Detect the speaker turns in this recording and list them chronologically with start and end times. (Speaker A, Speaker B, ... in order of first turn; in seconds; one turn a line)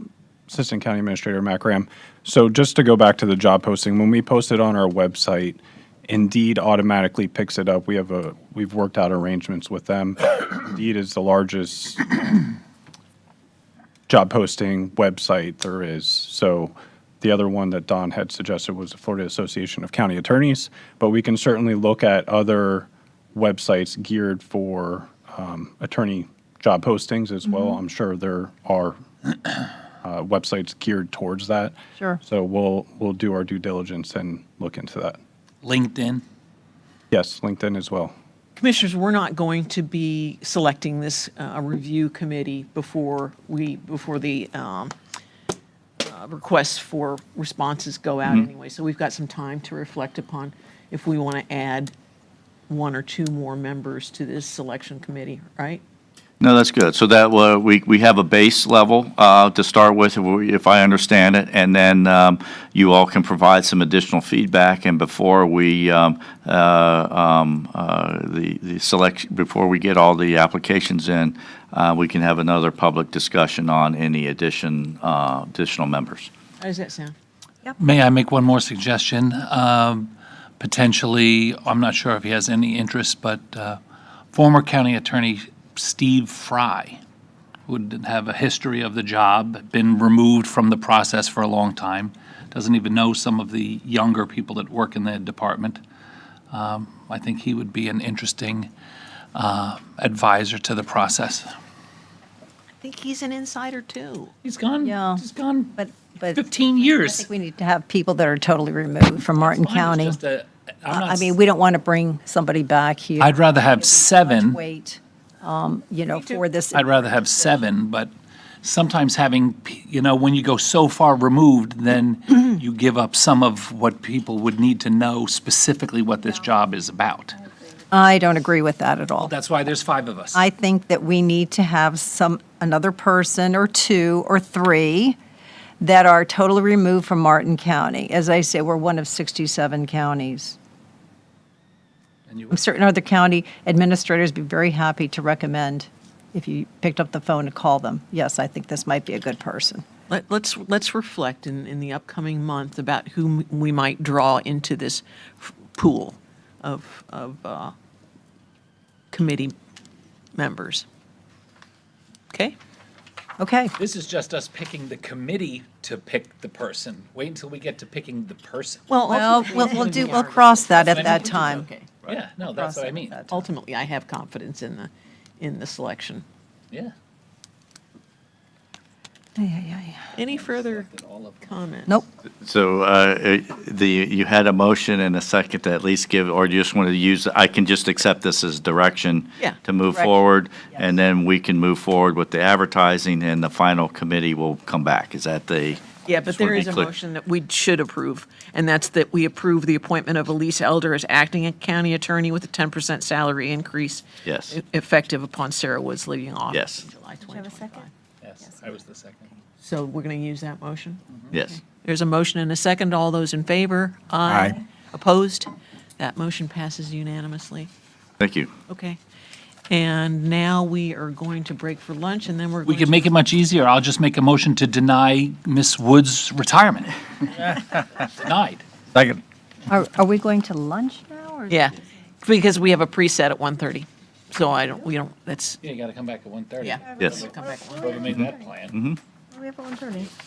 Speaker A: 0.5-12.4
Speaker A: 14.1-29.0
Speaker A: 30.0-35.2
Speaker B: 35.6-36.2
Speaker A: 37.1-38.1
Speaker C: 38.6-44.9
Speaker C: 46.0-51.9
Speaker D: 48.2-48.5
Speaker C: 52.7-55.8
Speaker D: 56.4-76.3
Speaker C: 76.6-77.1
Speaker B: 77.8-83.8
Speaker B: 84.3-87.0
Speaker B: 87.7-95.8
Speaker B: 96.5-98.7
Speaker B: 99.3-101.5
Speaker C: 102.8-104.3
Speaker B: 104.4-107.3
Speaker E: 104.8-105.2
Speaker E: 105.8-110.2
Speaker B: 109.3-111.3
Speaker E: 110.9-116.9
Speaker B: 113.2-114.6
Speaker C: 116.1-116.4
Speaker B: 116.7-118.1
Speaker B: 118.6-127.4
Speaker E: 127.9-129.3
Speaker B: 129.2-130.4
Speaker E: 130.3-135.2
Speaker E: 135.8-140.6
Speaker B: 142.3-142.6
Speaker E: 142.5-149.8
Speaker C: 150.1-157.7
Speaker C: 159.1-159.5
Speaker C: 160.3-160.8
Speaker E: 163.4-163.8
Speaker B: 163.8-168.9
Speaker C: 168.9-171.9
Speaker E: 169.1-171.7
Speaker B: 170.7-173.2
Speaker E: 172.5-173.3
Speaker C: 173.3-176.2
Speaker E: 179.4-180.1
Speaker C: 180.2-180.9
Speaker B: 180.2-181.5
Speaker C: 181.4-182.0
Speaker D: 182.4-196.9
Speaker C: 196.1-207.9
Speaker D: 204.2-204.6
Speaker D: 206.5-206.8
Speaker E: 207.2-207.8
Speaker B: 208.2-209.3
Speaker C: 209.6-217.7
Speaker D: 211.3-211.6
Speaker A: 214.2-214.6
Speaker D: 218.2-218.5
Speaker C: 218.7-219.0
Speaker C: 219.7-223.1
Speaker B: 222.6-228.6
Speaker E: 229.7-231.7
Speaker C: 231.5-235.6
Speaker B: 235.6-238.8
Speaker C: 236.6-238.0
Speaker E: 237.0-238.3
Speaker D: 238.1-239.0
Speaker E: 239.3-240.1